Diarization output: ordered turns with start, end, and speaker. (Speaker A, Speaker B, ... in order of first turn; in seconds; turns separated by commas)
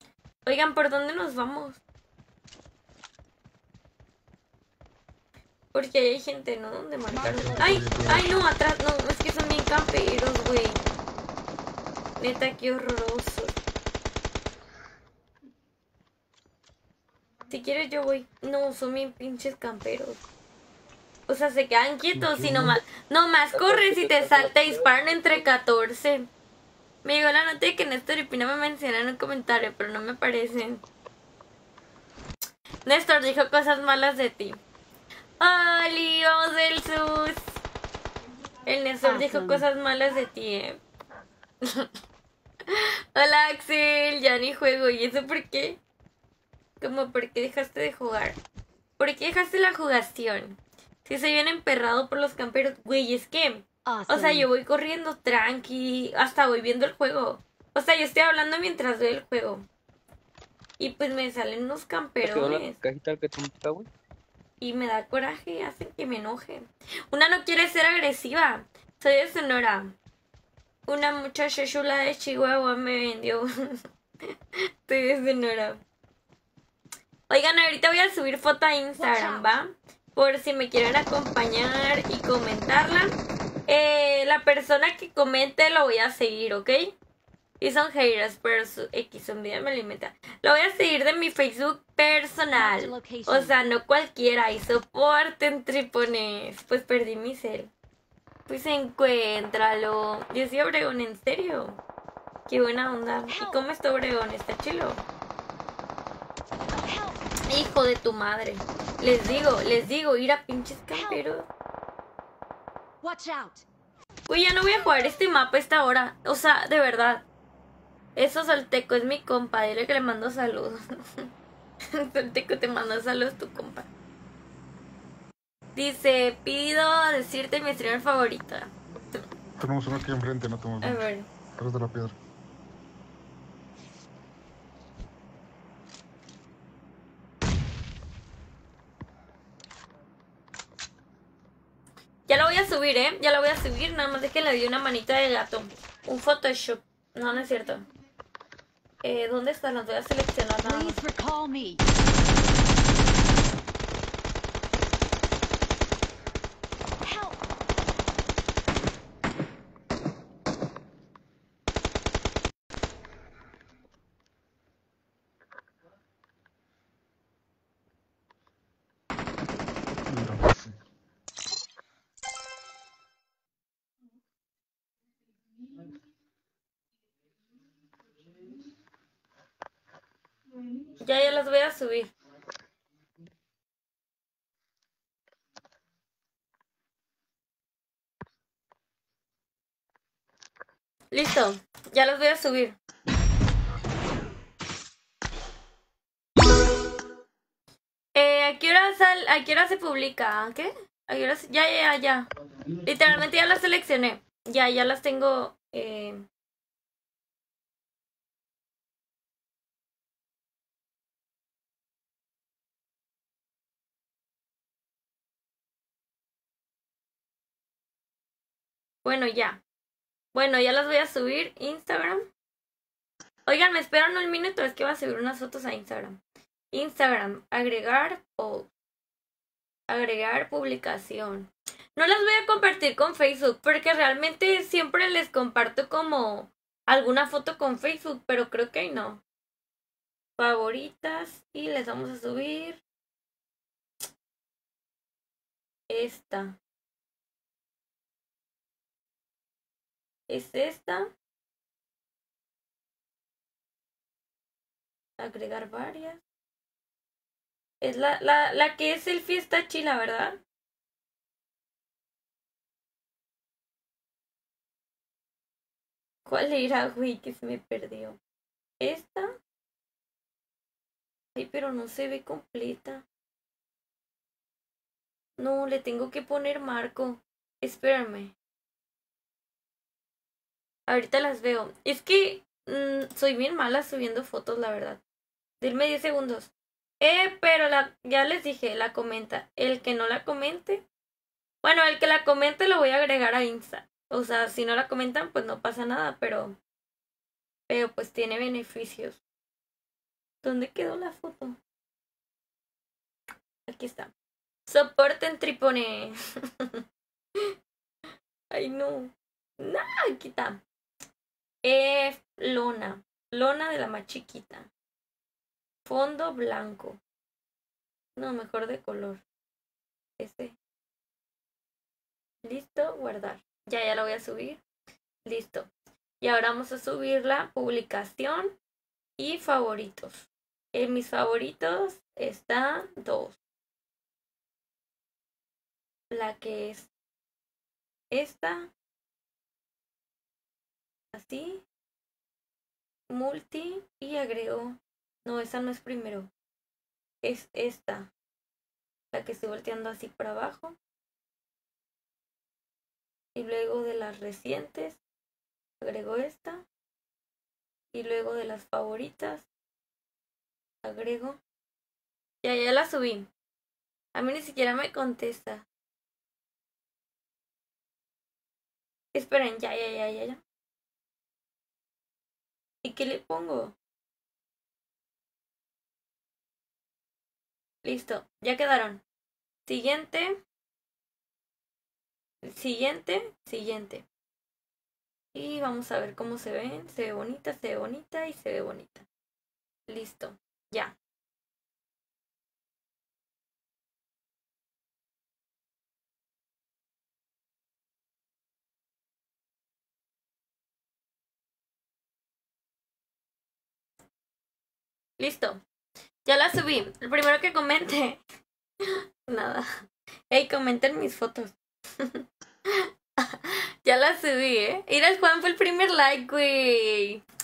Speaker A: 0.5-1.8, Speaker A: 5.7-10.8, Speaker B: 7.1-8.4, Speaker C: 7.2-8.5, Speaker A: 12.2-13.6, Speaker A: 17.5-20.2, Speaker A: 21.3-26.3, Speaker C: 22.1-22.8, Speaker D: 23.5-25.5, Speaker A: 27.1-30.8, Speaker A: 32.9-34.6, Speaker A: 35.4-37.5, Speaker A: 38.7-40.8, Speaker B: 39.0-39.7, Speaker A: 41.6-41.9, Speaker A: 42.7-45.8, Speaker A: 46.8-48.4, Speaker A: 49.0-59.7, Speaker B: 53.9-54.5, Speaker A: 60.8-62.8, Speaker D: 62.2-63.9, Speaker A: 64.6-70.0, Speaker A: 70.9-74.3, Speaker A: 74.9-75.8, Speaker A: 77.3-83.2, Speaker B: 79.0-79.6, Speaker A: 83.7-87.0, Speaker A: 87.6-97.7, Speaker B: 92.5-93.6, Speaker A: 98.5-101.8, Speaker A: 102.5-105.0, Speaker B: 103.3-103.6, Speaker B: 106.8-107.3, Speaker A: 107.5-111.5, Speaker B: 110.9-111.2, Speaker B: 113.0-113.7, Speaker A: 114.3-117.3, Speaker A: 118.2-121.3, Speaker A: 121.9-123.9, Speaker A: 125.8-128.7, Speaker C: 129.6-131.0, Speaker A: 130.8-131.3, Speaker C: 131.6-132.2, Speaker A: 142.3-147.8, Speaker A: 149.0-151.0, Speaker B: 150.6-151.8, Speaker B: 157.0-157.4, Speaker C: 170.1-170.8, Speaker A: 181.0-182.1, Speaker A: 191.1-192.8, Speaker A: 198.2-202.3, Speaker A: 202.8-206.2, Speaker A: 219.1-219.6, Speaker A: 220.3-222.2, Speaker A: 223.5-226.2, Speaker A: 226.7-228.7, Speaker A: 229.9-239.2, Speaker A: 240.4-242.8, Speaker A: 245.9-246.6, Speaker A: 250.3-251.1, Speaker A: 255.2-256.2, Speaker A: 257.8-260.4, Speaker A: 266.3-268.2, Speaker A: 268.8-269.3, Speaker A: 271.4-273.0, Speaker A: 275.4-278.3, Speaker A: 280.9-285.0, Speaker A: 285.6-286.5, Speaker A: 287.0-290.8, Speaker A: 291.6-296.6, Speaker A: 297.7-299.2, Speaker A: 300.4-301.6, Speaker A: 303.7-304.1, Speaker A: 304.7-306.2, Speaker A: 308.5-310.6, Speaker A: 311.6-314.7, Speaker A: 315.9-317.0, Speaker A: 318.2-319.2, Speaker A: 320.2-320.6, Speaker A: 322.4-324.6, Speaker A: 325.3-325.7, Speaker A: 326.2-328.6, Speaker A: 329.2-333.4, Speaker A: 336.1-336.9, Speaker A: 338.1-338.7, Speaker A: 341.1-341.6, Speaker A: 343.1-346.3, Speaker A: 347.2-348.1, Speaker A: 349.1-350.8, Speaker A: 353.4-355.0, Speaker A: 355.8-356.6, Speaker A: 357.9-359.4, Speaker A: 360.8-361.4, Speaker A: 362.4-363.3, Speaker A: 364.1-365.6, Speaker A: 369.1-370.4, Speaker A: 372.8-373.8, Speaker A: 377.8-379.0, Speaker A: 379.7-380.4, Speaker A: 382.4-384.1, Speaker A: 385.3-389.1, Speaker A: 389.9-390.9, Speaker A: 405.2-405.6, Speaker A: 406.3-408.2, Speaker A: 408.9-409.7, Speaker A: 410.3-417.2